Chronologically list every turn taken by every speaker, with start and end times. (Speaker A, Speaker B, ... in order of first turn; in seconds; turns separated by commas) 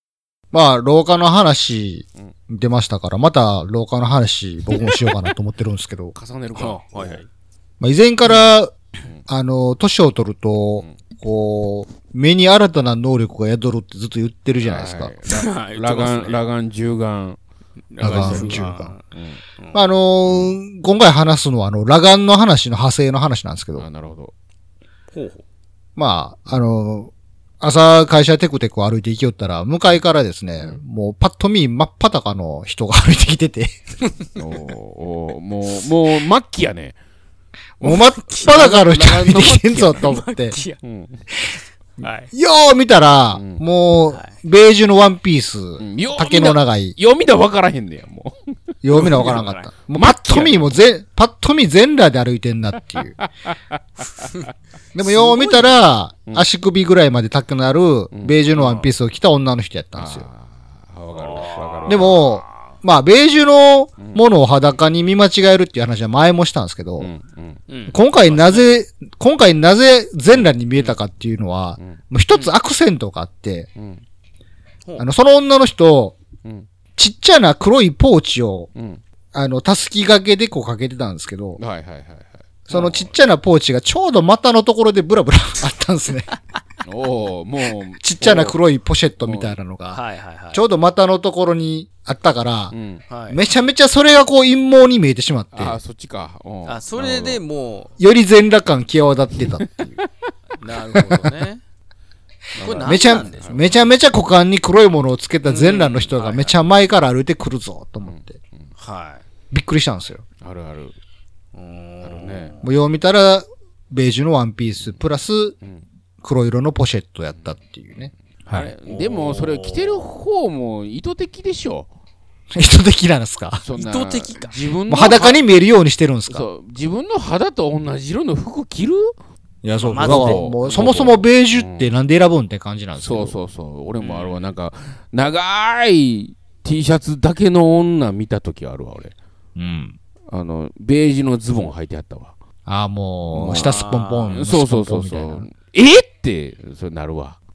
Speaker A: 0.5-6.1, Speaker B: 6.1-7.2, Speaker C: 6.5-7.3, Speaker A: 7.8-8.7, Speaker B: 8.2-8.5, Speaker A: 9.3-15.1, Speaker B: 14.6-17.4, Speaker C: 15.3-16.4, Speaker C: 17.9-19.0, Speaker A: 18.0-18.9, Speaker B: 18.0-18.6, Speaker B: 19.1-19.4, Speaker C: 19.6-19.8, Speaker A: 19.7-23.9, Speaker B: 20.2-20.6, Speaker B: 23.8-24.3, Speaker C: 25.1-25.4, Speaker A: 26.0-33.8, Speaker B: 34.3-37.0, Speaker A: 37.8-40.6, Speaker C: 37.8-38.7, Speaker B: 38.4-40.1, Speaker C: 39.9-40.8, Speaker B: 40.8-41.2, Speaker C: 42.0-42.3, Speaker A: 42.0-47.0, Speaker B: 43.3-43.6, Speaker B: 45.8-48.3, Speaker A: 48.8-53.1, Speaker C: 48.9-49.7, Speaker B: 49.0-49.4, Speaker B: 49.9-50.8, Speaker B: 53.2-53.5, Speaker A: 54.9-60.3, Speaker B: 55.0-56.4, Speaker B: 58.1-58.9, Speaker B: 60.0-62.2, Speaker C: 61.1-62.8, Speaker A: 61.9-67.1, Speaker B: 64.0-64.8, Speaker B: 67.0-67.6, Speaker C: 67.7-68.7, Speaker A: 67.9-73.7, Speaker C: 70.7-71.0, Speaker B: 71.8-72.5, Speaker B: 73.8-74.0, Speaker A: 75.0-76.2, Speaker A: 77.0-78.7, Speaker B: 78.8-79.0, Speaker A: 79.3-81.6, Speaker B: 81.6-83.1, Speaker A: 82.7-86.3, Speaker B: 86.9-88.6, Speaker A: 88.0-90.0, Speaker B: 89.2-89.6, Speaker C: 89.9-90.7, Speaker A: 90.5-92.7, Speaker B: 92.7-93.0, Speaker C: 93.1-93.4, Speaker A: 93.3-95.8, Speaker B: 95.5-97.4, Speaker C: 96.7-97.9, Speaker A: 98.0-99.8, Speaker B: 99.4-100.1, Speaker C: 100.6-101.6, Speaker C: 102.5-103.8, Speaker B: 102.6-103.6, Speaker A: 102.7-108.3, Speaker C: 105.4-106.6, Speaker B: 108.0-108.7, Speaker C: 108.8-109.2, Speaker A: 109.5-110.2, Speaker B: 110.4-111.0, Speaker C: 111.5-112.7, Speaker B: 112.0-112.5, Speaker A: 112.6-115.5, Speaker A: 116.2-118.7, Speaker C: 118.5-120.1, Speaker B: 118.5-121.9, Speaker A: 122.5-123.6, Speaker B: 123.6-125.4, Speaker C: 123.8-124.8, Speaker A: 124.9-126.4, Speaker B: 126.3-129.1, Speaker A: 129.6-133.3, Speaker C: 129.8-130.4, Speaker B: 129.9-131.9, Speaker B: 133.0-139.1, Speaker C: 134.0-134.5, Speaker A: 139.6-140.0, Speaker B: 140.3-142.3, Speaker A: 142.7-145.5, Speaker B: 143.3-143.7, Speaker C: 143.3-144.4, Speaker B: 144.3-147.4